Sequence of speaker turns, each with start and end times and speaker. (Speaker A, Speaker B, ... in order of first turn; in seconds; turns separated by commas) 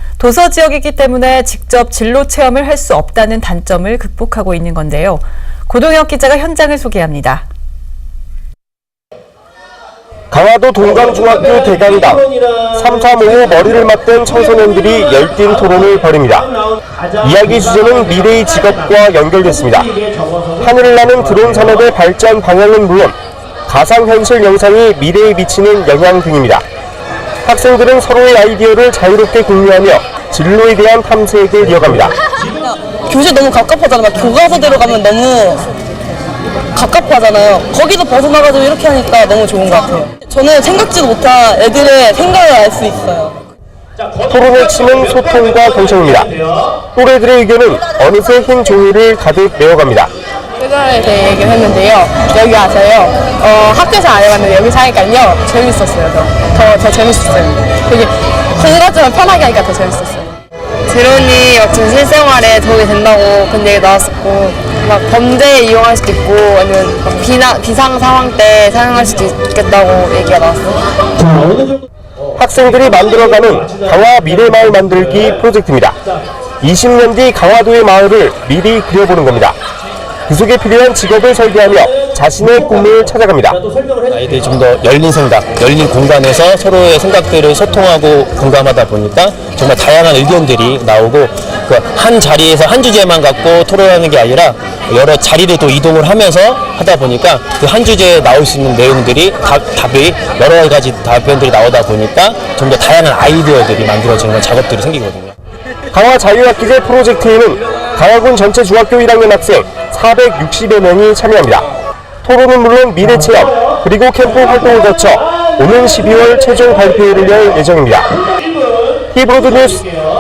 Speaker A: 0.2-7.5, Speaker B: 10.3-16.5, Speaker B: 17.2-20.0, Speaker B: 20.6-23.2, Speaker B: 23.7-26.6, Speaker B: 27.4-32.2, Speaker C: 33.1-35.6, Speaker C: 36.8-43.4, Speaker B: 44.2-46.4, Speaker B: 46.9-50.1, Speaker D: 50.6-60.3, Speaker D: 60.9-70.8, Speaker B: 72.4-76.0, Speaker B: 76.6-79.6, Speaker B: 80.3-83.6, Speaker E: 84.1-105.3, Speaker B: 105.9-111.7, Speaker B: 112.2-118.2, Speaker B: 119.1-120.0